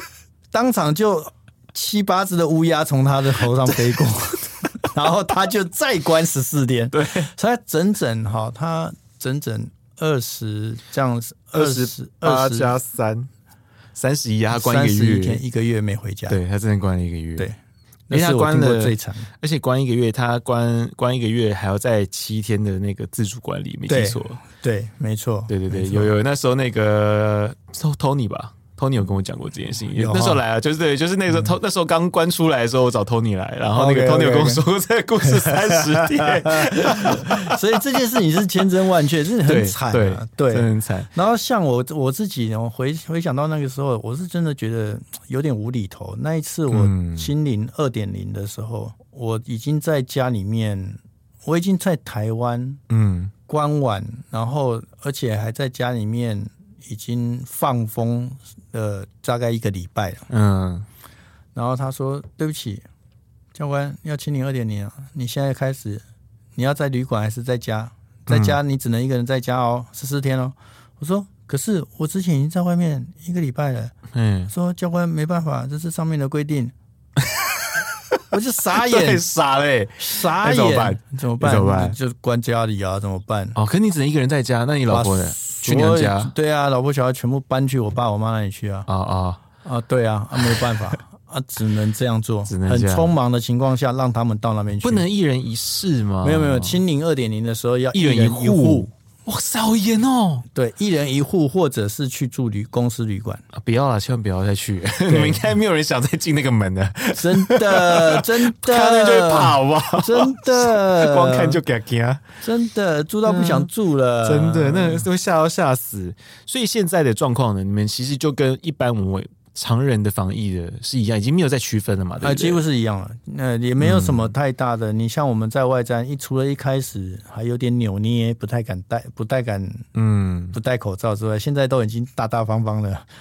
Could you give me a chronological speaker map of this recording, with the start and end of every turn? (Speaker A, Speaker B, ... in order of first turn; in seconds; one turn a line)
Speaker A: 0.5-12.7
Speaker B: 6.9-7.3
Speaker B: 11.5-13.3
Speaker B: 13.9-15.4
Speaker A: 14.5-16.4
Speaker B: 16.3-17.5
Speaker A: 18.1-19.3
Speaker B: 18.1-24.4
Speaker A: 23.9-26.1
Speaker B: 25.5-37.6
Speaker A: 29.9-30.4
Speaker A: 33.8-34.6
Speaker A: 35.2-52.8
Speaker B: 39.5-41.1
Speaker B: 46.7-47.3
Speaker B: 52.9-53.3
Speaker A: 53.5-60.3
Speaker B: 60.3-60.9
Speaker A: 61.5-62.9
Speaker A: 63.5-66.0
Speaker A: 66.6-73.9
Speaker B: 68.3-68.6
Speaker B: 74.1-74.5
Speaker A: 74.5-76.7
Speaker B: 77.2-78.2
Speaker A: 78.3-79.2
Speaker B: 78.7-82.0
Speaker A: 80.0-83.6
Speaker B: 83.5-86.3
Speaker A: 84.9-88.9
Speaker B: 88.9-89.4
Speaker A: 89.6-95.0
Speaker B: 90.4-90.7
Speaker B: 92.5-93.1
Speaker B: 94.8-96.8
Speaker A: 96.2-98.9
Speaker B: 97.9-100.5
Speaker A: 100.5-103.4
Speaker B: 103.5-112.4
Speaker A: 105.1-105.4
Speaker A: 107.2-111.6
Speaker A: 112.4-115.1
Speaker B: 113.3-113.7
Speaker B: 114.2-122.6
Speaker A: 122.2-129.9
Speaker B: 123.8-124.3
Speaker B: 129.9-130.6
Speaker A: 130.5-133.1